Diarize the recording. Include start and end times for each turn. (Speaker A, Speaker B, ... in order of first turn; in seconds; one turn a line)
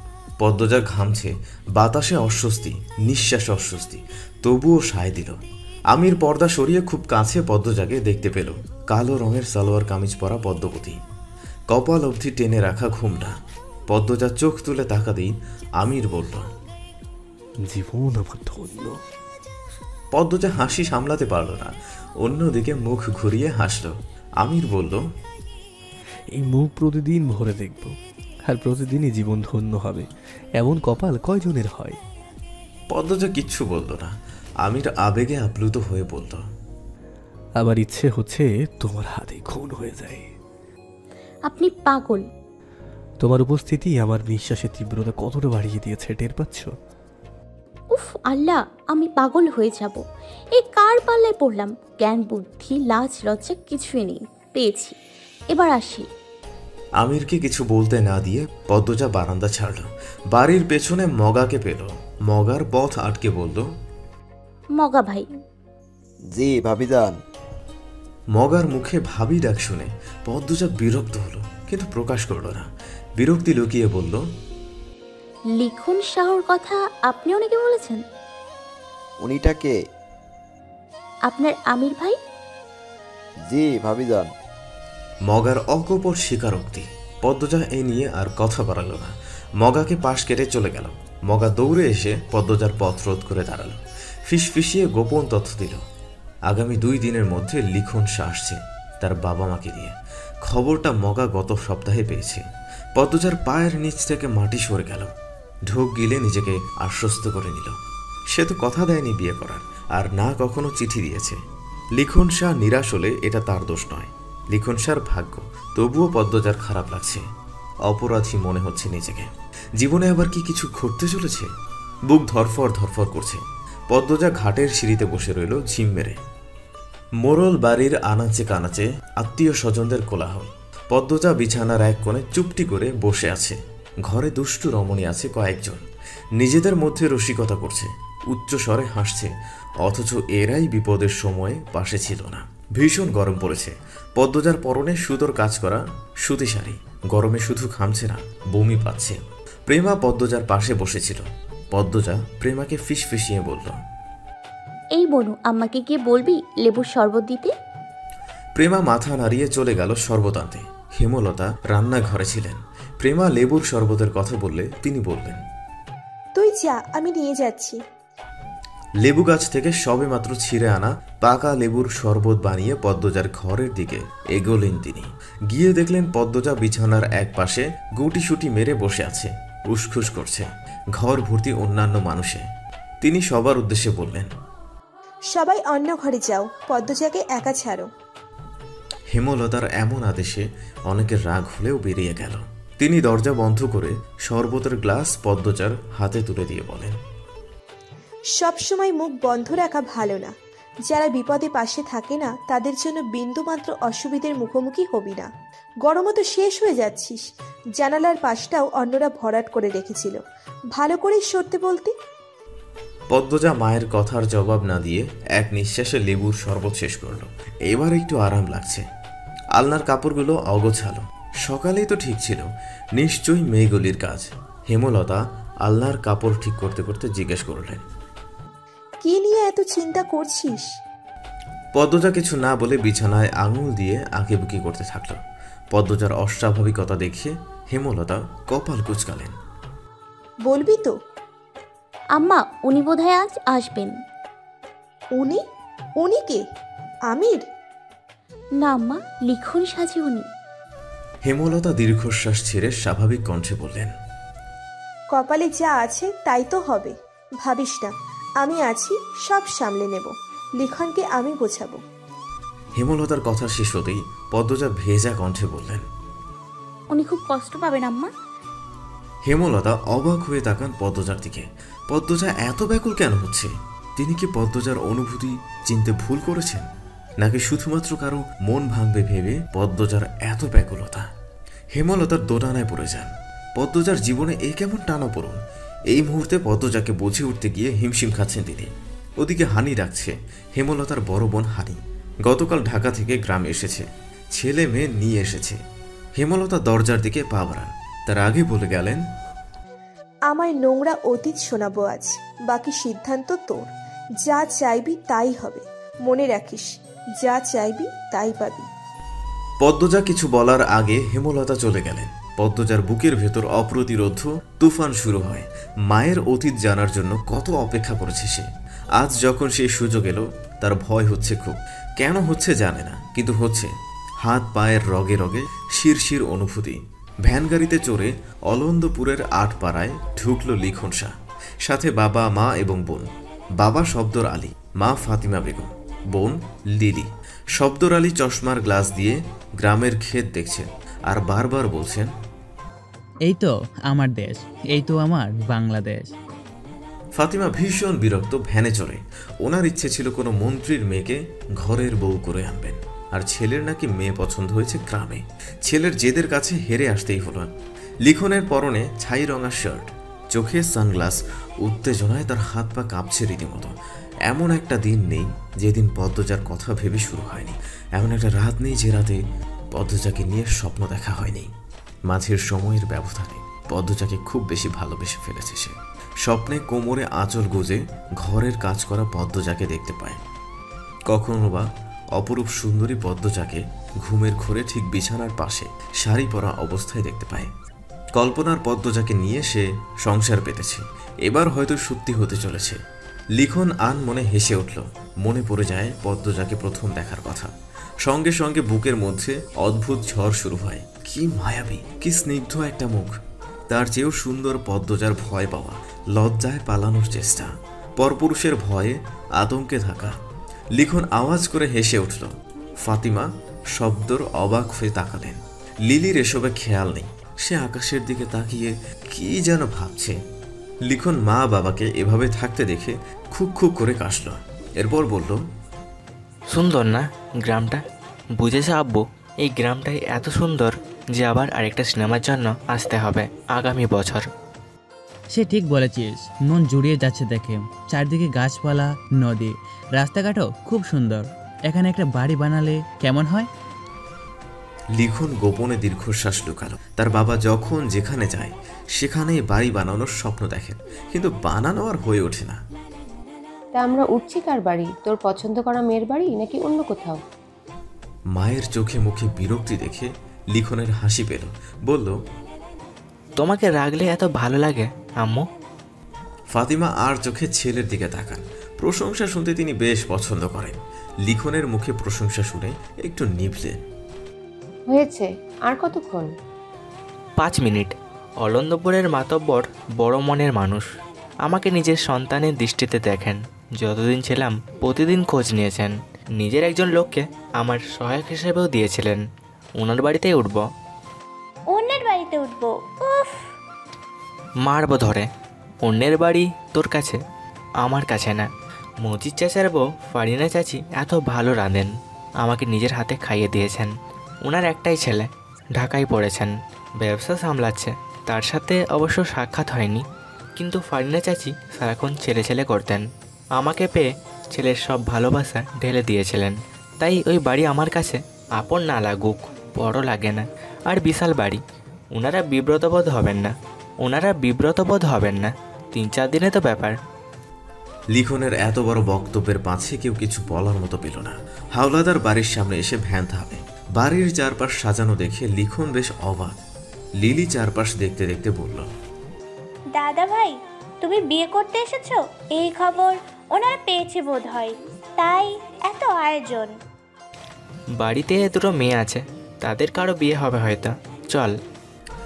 Speaker A: 0.4-5.4
Speaker A: 5.9-11.0
Speaker A: 11.7-13.3
Speaker A: 13.9-16.5
Speaker B: 17.6-19.0
Speaker A: 20.1-25.0
Speaker B: 26.3-27.9
Speaker B: 28.4-30.1
Speaker B: 30.6-32.0
Speaker A: 32.9-36.4
Speaker B: 37.6-40.3
Speaker C: 41.5-42.2
Speaker B: 43.2-46.7
Speaker C: 47.9-50.0
Speaker C: 50.5-55.0
Speaker C: 55.5-56.1
Speaker A: 57.0-63.7
Speaker C: 64.8-65.3
Speaker D: 66.3-67.1
Speaker A: 68.3-74.2
Speaker C: 75.6-78.0
Speaker D: 79.2-79.7
Speaker C: 81.3-82.2
Speaker D: 83.5-84.3
Speaker A: 85.3-95.8
Speaker A: 96.5-102.4
Speaker A: 103.0-105.1
Speaker A: 105.7-107.8
Speaker A: 108.3-111.4
Speaker A: 112.0-117.2
Speaker A: 117.9-121.5
Speaker A: 122.1-126.2
Speaker A: 127.2-135.8
Speaker A: 136.4-153.8
Speaker C: 154.9-157.5
Speaker A: 158.6-165.4
Speaker E: 166.3-167.8
Speaker A: 169.0-182.5
Speaker A: 183.0-184.3
Speaker E: 185.3-187.9
Speaker A: 189.1-197.0
Speaker E: 198.3-200.3
Speaker E: 200.8-205.3
Speaker E: 205.8-210.2
Speaker E: 210.7-211.9
Speaker A: 213.1-218.8
Speaker A: 219.6-227.8
Speaker E: 229.0-230.7
Speaker A: 231.7-235.2
Speaker A: 235.7-239.3
Speaker E: 240.4-240.9
Speaker C: 242.1-243.9
Speaker E: 245.2-245.4
Speaker E: 246.0-246.4
Speaker E: 247.1-247.4
Speaker C: 248.6-250.2
Speaker A: 251.3-253.9
Speaker E: 255.1-261.8
Speaker A: 262.8-265.8
Speaker C: 267.0-268.1
Speaker A: 269.3-276.7
Speaker A: 277.2-281.1
Speaker A: 281.7-285.4
Speaker A: 285.9-295.6
Speaker A: 296.2-299.0
Speaker E: 300.3-303.7
Speaker E: 304.2-308.7
Speaker A: 309.6-323.7
Speaker A: 324.2-333.1
Speaker A: 333.6-342.1
Speaker F: 343.2-346.1
Speaker A: 347.1-357.5
Speaker A: 358.0-363.7
Speaker A: 364.2-369.2
Speaker A: 369.7-371.5
Speaker A: 372.1-380.2
Speaker A: 381.1-387.5
Speaker A: 388.1-392.8
Speaker A: 393.4-397.5
Speaker A: 398.0-403.1
Speaker A: 403.7-410.1
Speaker A: 410.8-420.2
Speaker A: 420.9-425.4
Speaker G: 426.5-427.8
Speaker G: 428.4-434.2
Speaker F: 435.3-443.5
Speaker A: 444.9-452.6
Speaker H: 453.7-457.2
Speaker A: 458.3-462.1
Speaker G: 463.4-465.4
Speaker A: 466.5-473.8
Speaker H: 474.9-476.3
Speaker G: 477.4-480.9
Speaker G: 481.4-489.2
Speaker G: 489.8-490.6
Speaker I: 491.7-493.4
Speaker G: 494.6-495.3
Speaker G: 495.8-497.2
Speaker G: 497.8-498.5
Speaker G: 499.0-501.9
Speaker G: 502.4-503.9
Speaker G: 504.4-510.0
Speaker G: 510.6-513.0
Speaker G: 513.6-521.6
Speaker G: 522.1-527.0
Speaker A: 528.1-536.6
Speaker A: 537.2-538.9
Speaker I: 539.9-546.7
Speaker G: 548.0-551.5